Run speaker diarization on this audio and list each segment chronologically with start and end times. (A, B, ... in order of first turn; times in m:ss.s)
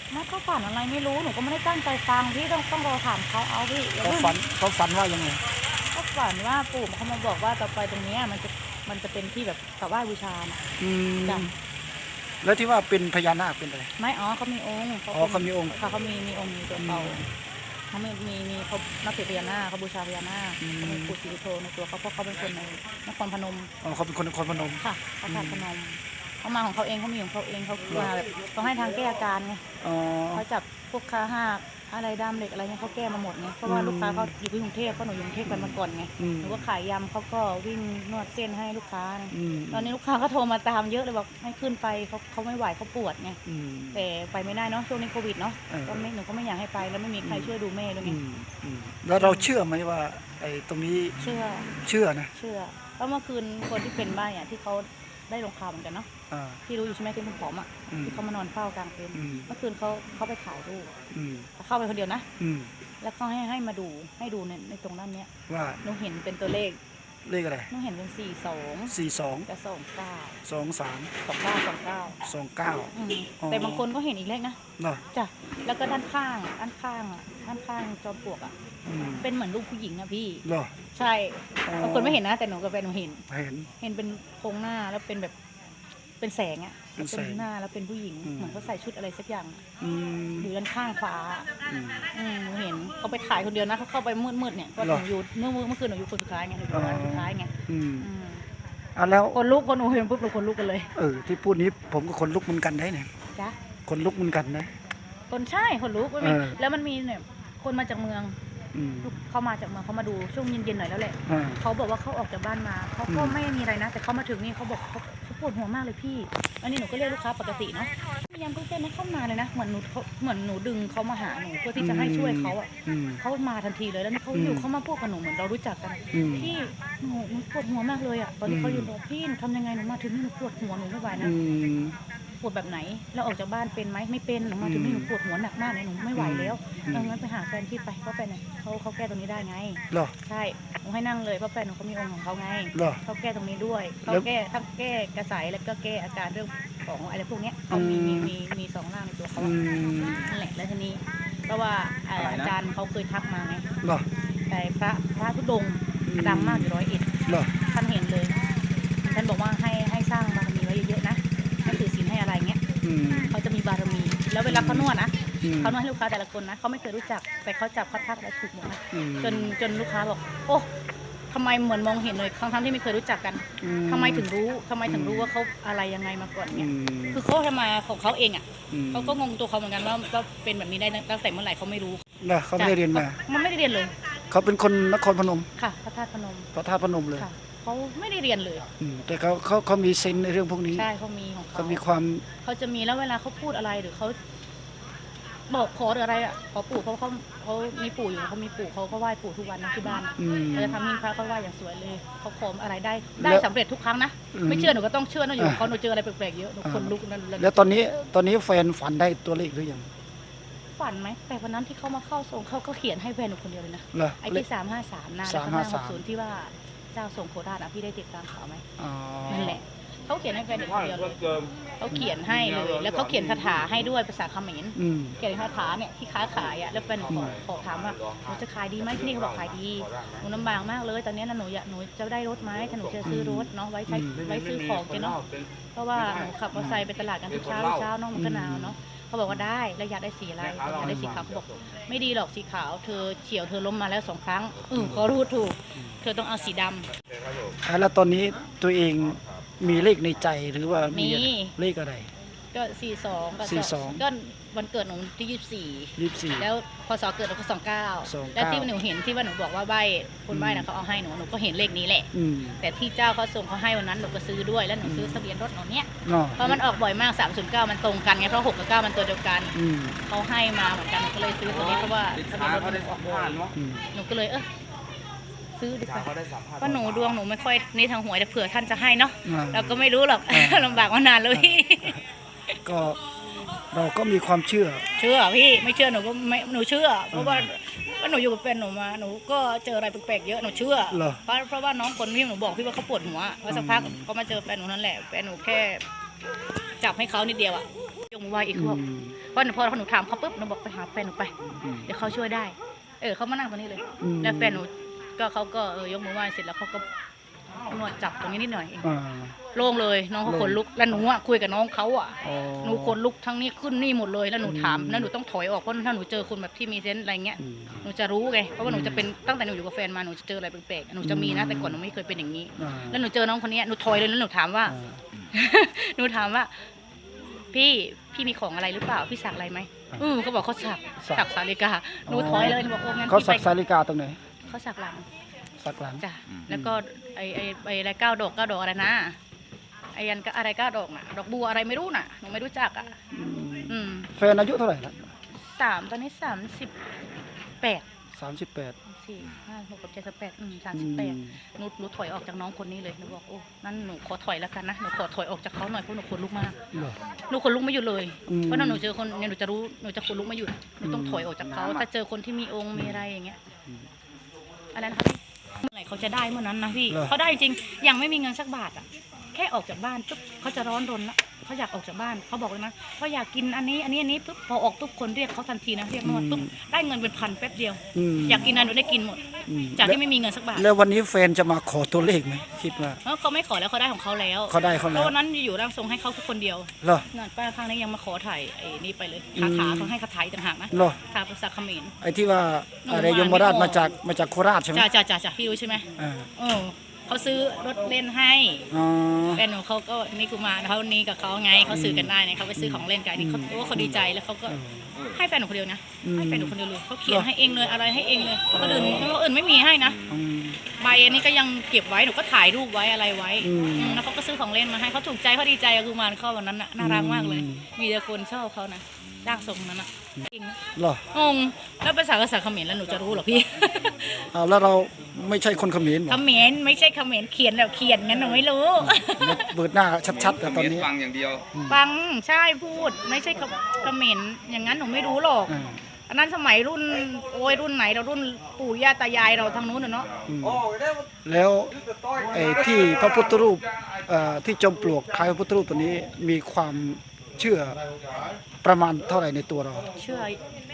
0:00.1-0:04.4 A
0:04.0-0:05.4 B
0:05.9-0:10.6 A
0:10.8-0:11.5 B
0:12.4-0:13.9 B
0:14.0-0:17.2 A
0:15.1-0:15.7 B
0:16.8-0:17.3 B
0:17.9-0:23.7 A
0:20.6-0:21.1 B
0:23.8-0:25.6 B
0:24.8-0:29.6 A
0:29.8-0:30.4 B
0:30.3-0:43.4 A
0:33.6-0:34.3 B
0:35.5-0:36.7 B
0:39.3-0:39.9 B
0:43.4-0:44.1 B
0:43.9-0:48.2 A
0:45.7-0:46.0 B
0:47.2-0:51.3 B
0:49.2-0:49.5 A
0:51.2-0:51.7 A
0:51.8-0:52.3 B
0:52.3-0:56.1 A
0:56.3-0:56.6 B
0:56.7-1:00.9 A
0:57.9-0:58.2 B
0:59.1-0:59.5 B
1:01.1-1:01.5 B
1:01.6-1:02.2 A
1:02.4-1:02.7 B
1:03.0-1:05.3 A
1:05.5-1:05.8 B
1:05.8-1:06.8 A
1:07.2-1:07.7 B
1:07.7-1:08.9 A
1:08.9-1:09.5 B
1:09.5-1:10.4 A
1:10.4-1:11.1 B
1:11.2-1:12.2 A
1:12.2-1:13.8 B
1:12.9-1:14.6 A
1:15.1-1:18.5 A
1:18.9-1:19.2 B
1:19.2-1:23.2 A
1:20.4-1:20.7 B
1:21.7-1:22.2 B
1:23.3-1:23.7 B
1:23.8-1:25.3 A
1:26.2-1:29.6 A
1:27.0-1:27.4 B
1:28.2-1:28.7 B
1:29.8-1:30.5 B
1:30.4-1:31.5 A
1:31.7-1:32.1 B
1:32.1-1:38.4 A
1:34.8-1:35.0 B
1:36.7-1:38.1 B
1:39.0-1:39.4 B
1:39.3-1:40.9 A
1:41.0-1:43.1 B
1:43.9-1:44.7 B
1:45.3-1:48.3 A
1:46.2-1:46.6 B
1:48.7-1:49.1 B
1:49.0-2:02.7 A
1:51.3-1:51.6 B
1:53.1-1:53.4 B
2:01.8-2:03.2 B
2:03.2-2:11.3 A
2:04.3-2:04.7 B
2:06.1-2:06.5 B
2:08.5-2:08.9 B
2:11.2-2:11.9 B
2:12.4-2:29.5 A
2:14.6-2:15.1 B
2:16.1-2:17.2 B
2:27.7-2:28.3 B
2:29.4-2:30.2 B
2:30.2-2:33.6 A
2:34.5-2:38.4 A
2:36.0-2:36.7 B
2:39.0-2:42.6 A
2:42.8-2:43.3 B
2:43.3-2:50.7 A
2:44.5-2:44.9 B
2:45.4-2:45.8 B
2:48.9-2:49.5 B
2:51.3-3:02.0 A
2:53.6-2:54.3 B
2:54.8-2:55.3 B
2:56.5-2:57.2 B
2:58.7-2:59.2 B
3:02.2-3:03.2 B
3:02.6-3:03.9 A
3:04.3-3:05.5 B
3:05.6-3:06.5 A
3:06.5-3:07.3 B
3:07.2-3:08.7 A
3:08.8-3:10.8 B
3:10.7-3:11.8 A
3:11.5-3:12.2 B
3:12.4-3:14.2 A
3:15.5-3:27.7 A
3:20.1-3:20.8 B
3:23.2-3:23.4 B
3:24.3-3:24.8 B
3:25.4-3:25.7 B
3:26.6-3:29.9 B
3:30.8-3:38.6 A
3:33.9-3:34.4 B
3:35.2-3:36.0 B
3:38.8-3:39.6 B
3:39.3-3:41.3 A
3:41.8-3:55.2 A
3:44.8-3:45.2 B
3:47.1-3:47.4 B
3:53.0-3:54.2 B
3:55.7-4:06.9 A
3:56.5-3:56.8 B
3:58.1-3:58.7 B
4:00.8-4:01.3 B
4:07.6-4:12.1 B
4:10.9-4:11.5 A
4:12.5-4:22.1 A
4:13.4-4:14.0 B
4:16.0-4:16.5 B
4:18.0-4:18.7 B
4:20.3-4:20.7 B
4:22.1-4:22.6 B
4:22.6-4:34.4 A
4:24.8-4:25.2 B
4:26.0-4:26.6 B
4:29.5-4:30.0 B
4:32.0-4:33.5 C
4:33.5-4:33.8 B
4:35.6-4:42.0 A
4:36.0-4:36.8 C
4:39.2-4:42.0 B
4:42.6-4:43.0 B
4:43.7-4:44.8 B
4:45.0-4:55.8 A
4:47.1-4:47.5 B
4:50.9-4:51.2 B
4:53.5-4:54.0 B
4:56.8-4:58.8 A
4:58.5-4:59.1 B
4:59.3-5:01.3 A
5:01.6-5:01.9 B
5:01.8-5:06.8 A
5:04.0-5:04.6 B
5:07.6-5:08.9 A
5:08.8-5:09.3 B
5:09.5-5:24.8 A
5:10.2-5:10.6 B
5:12.2-5:13.0 B
5:14.4-5:15.1 B
5:17.4-5:17.8 B
5:18.6-5:19.0 B
5:21.0-5:21.8 B
5:22.6-5:23.0 B
5:24.6-5:25.0 B
5:25.3-5:26.5 A
5:27.5-5:33.5 A
5:32.1-5:34.2 B
5:34.5-5:35.1 A
5:35.6-5:36.8 B
5:36.0-5:39.2 A
5:39.9-5:42.9 A
5:43.1-5:45.1 B
5:43.7-5:44.1 A
5:45.3-5:46.7 A
5:48.2-5:48.7 B
5:48.9-5:56.6 A
5:50.7-5:51.4 B
5:57.3-6:03.4 A
5:58.3-5:58.8 B
6:00.8-6:01.8 B
6:02.7-6:03.0 B
6:04.7-6:19.2 A
6:06.9-6:07.1 B
6:16.0-6:16.5 B
6:17.9-6:18.5 B
6:19.5-6:20.0 B
6:19.8-6:20.7 A
6:20.5-6:23.0 B
6:23.0-6:31.9 A
6:24.5-6:25.1 B
6:29.4-6:29.9 B
6:30.7-6:31.0 B
6:32.0-6:34.9 B
6:32.8-6:33.9 A
6:34.7-6:38.6 A
6:36.0-6:36.3 B
6:38.7-6:39.4 B
6:39.4-6:44.6 A
6:41.7-6:44.9 B
6:45.1-6:50.0 A
6:46.0-6:47.3 B
6:48.5-6:49.1 B
6:50.1-6:50.6 B
6:50.8-7:00.6 A
6:53.4-6:54.0 B
6:56.8-6:57.6 B
7:00.8-7:01.0 B
7:01.1-7:04.1 A
7:04.3-7:06.2 B
7:06.1-7:09.5 A
7:08.8-7:10.9 B
7:10.2-7:11.4 C
7:11.7-7:15.6 A
7:15.5-7:15.8 B
7:16.1-7:20.1 A
7:20.3-7:20.7 B
7:21.2-7:21.7 B
7:22.3-7:27.8 B
7:28.6-7:29.9 B
7:30.0-7:30.4 A